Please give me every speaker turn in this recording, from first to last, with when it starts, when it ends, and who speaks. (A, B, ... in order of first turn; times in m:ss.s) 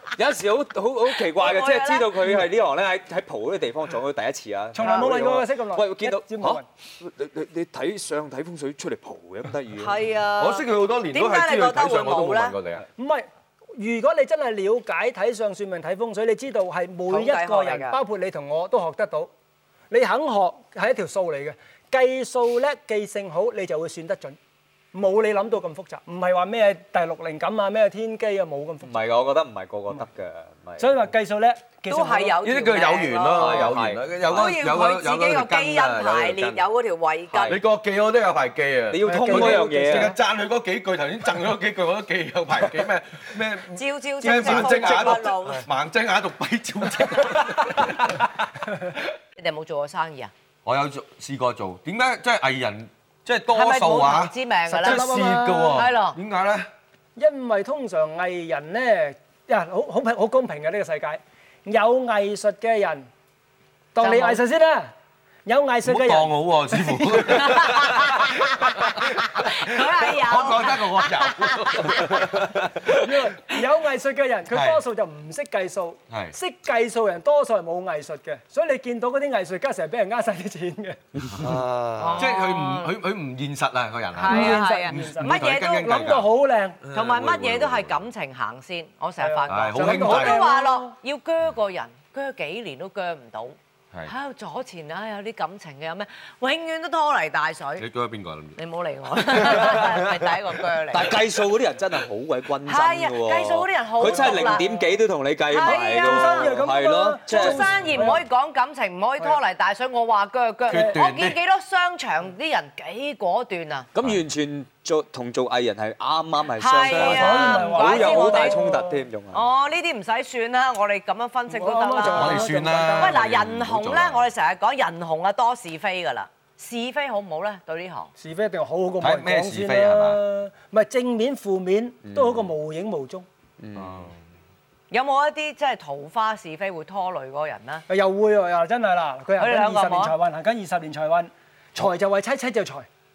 0:00.2-0:10.0 A
0:01.3-0:02.1 B
0:04.7-0:06.6 C
0:04.8-0:05.1 B
0:09.8-0:12.6 B
0:10.4-0:12.8 D
0:13.0-0:19.3 C
0:17.1-0:18.0 B
0:19.9-0:24.4 C
0:24.9-0:28.9 C
0:28.8-0:31.0 A
0:30.8-0:32.4 C
0:31.9-0:33.7 B
0:32.4-0:36.6 D
0:33.3-0:34.1 A
0:34.2-0:37.6 B
0:37.3-0:37.6 A
0:37.5-0:48.3 D
0:38.9-0:40.1 A
0:39.0-0:40.1 C
0:43.7-0:45.6 B
0:44.3-0:45.5 E
0:49.4-0:50.3 B
0:50.6-0:56.7 D
0:53.5-0:55.0 B
0:54.7-0:55.8 C
0:55.7-0:56.2 B
0:57.2-1:03.1 C
1:03.9-1:04.9 C
1:04.0-1:04.4 B
1:05.4-1:07.5 C
1:05.8-1:13.0 D
1:07.3-1:12.4 B
1:12.8-1:21.0 C
1:14.5-1:14.8 D
1:16.1-1:16.4 D
1:21.4-1:22.3 E
1:22.0-1:22.9 B
1:22.2-1:28.0 D
1:24.2-1:25.8 B
1:24.2-1:26.8 C
1:26.9-1:37.8 B
1:29.2-1:30.9 C
1:29.5-1:30.4 D
1:37.8-1:38.6 D
1:38.6-1:41.2 B
1:40.9-1:47.7 A
1:42.6-1:44.8 B
1:44.0-1:44.8 C
1:45.5-1:46.6 B
1:45.6-1:48.2 C
1:47.2-1:53.9 B
1:50.7-1:51.0 C
1:50.7-1:51.4 D
1:53.9-1:59.4 A
1:56.6-1:58.7 B
1:56.9-1:59.0 C
1:59.3-2:08.1 B
2:01.5-2:03.2 C
2:02.1-2:04.3 D
2:08.2-2:13.2 C
2:09.0-2:10.2 D
2:12.0-2:12.4 A
2:13.6-2:14.1 A
2:13.8-2:14.1 D
2:14.9-2:17.8 B
2:17.9-2:22.9 C
2:19.4-2:20.1 B